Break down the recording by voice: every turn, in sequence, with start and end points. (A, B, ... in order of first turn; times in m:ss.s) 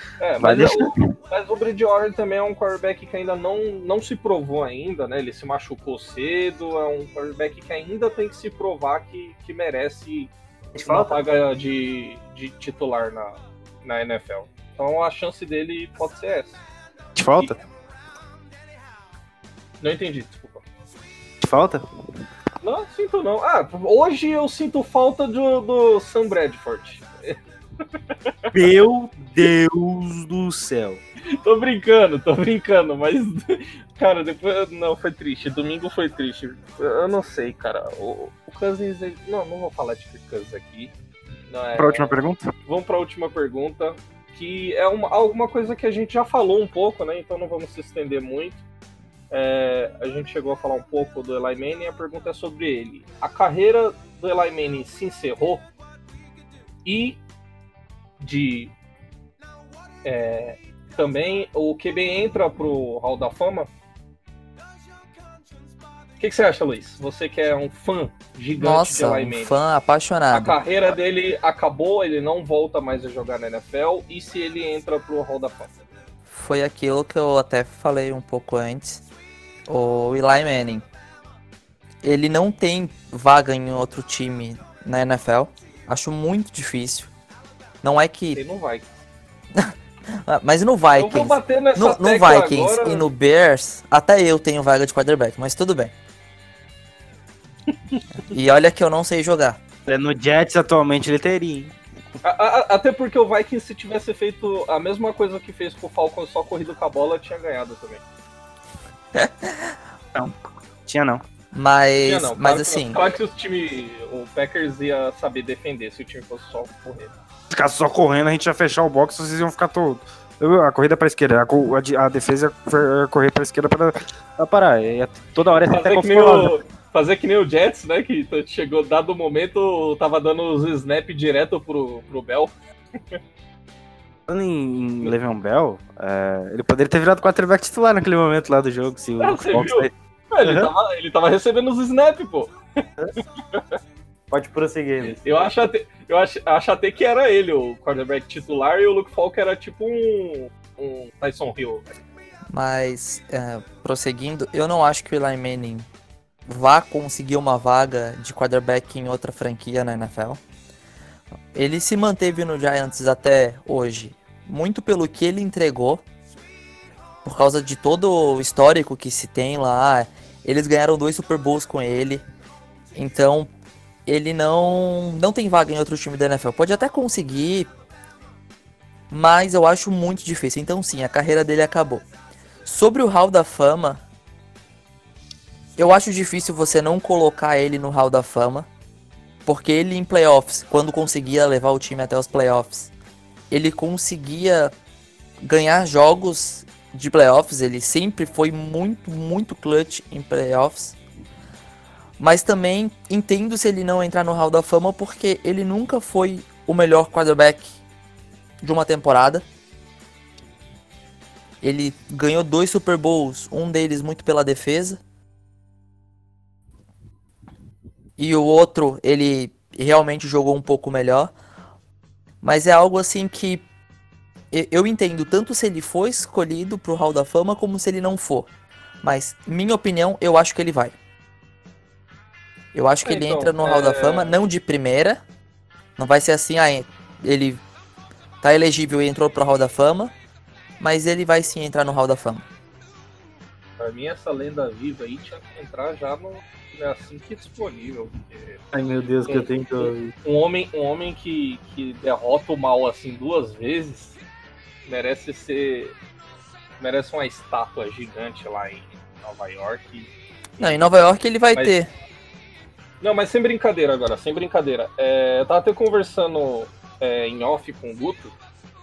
0:00.2-0:16.6 A
0:00.4-0:01.1 B
0:10.7-0:11.2 B
0:17.2-0:17.6 B
0:19.8-0:20.6 A
0:21.4-0:21.8 B
0:22.6-0:27.4 A
0:28.5-0:31.0 B
0:31.4-0:40.9 A
0:41.5-0:48.6 A
0:41.8-0:42.5 B
0:49.3-0:55.6 A
0:56.8-0:57.2 A
0:58.2-0:58.7 A
1:00.0-1:03.7 A
1:06.2-1:09.6 A
1:08.6-1:10.6 C
1:10.3-1:15.8 A
1:16.3-1:19.0 C
1:19.7-1:20.9 C
1:22.0-1:27.1 C
1:27.8-1:28.4 C
1:28.4-1:28.9 A
1:30.2-1:35.9 C
1:31.0-1:33.0 A
1:38.3-1:39.6 C
1:39.9-1:41.7 B
1:42.2-1:48.0 A
1:49.1-1:49.8 C
1:50.9-1:51.2 B
1:51.5-1:53.0 C
1:52.0-1:57.1 A
1:57.5-2:06.6 B
2:05.7-2:13.2 A
2:14.3-2:20.7 B
2:19.2-2:22.5 A
2:24.3-2:25.2 B
2:25.0-2:31.9 A
2:32.5-2:35.9 C
2:36.5-2:40.4 C
2:41.5-2:46.0 C
2:47.2-2:52.2 C
2:53.0-2:53.5 C
2:54.1-2:57.7 C
2:59.1-3:02.0 C
3:02.6-3:04.0 C
3:05.8-3:08.7 C
3:09.5-3:12.9 C
3:13.5-3:14.7 C
3:15.4-3:21.0 C
3:22.2-3:27.7 C
3:28.6-3:29.4 C
3:31.6-3:35.0 C
3:38.2-3:41.3 C
3:42.4-3:43.6 C
3:44.5-3:48.5 C
3:49.0-3:51.0 C
3:52.7-3:55.2 C
3:53.0-3:54.3 A
3:56.0-3:57.6 C
3:58.4-4:00.1 C
4:00.8-4:02.4 C
4:03.8-4:08.6 A
4:08.7-4:10.1 B
4:09.2-4:14.2 A
4:14.9-4:16.0 A
4:16.8-4:20.7 A
4:20.6-4:21.9 C
4:23.0-4:28.3 A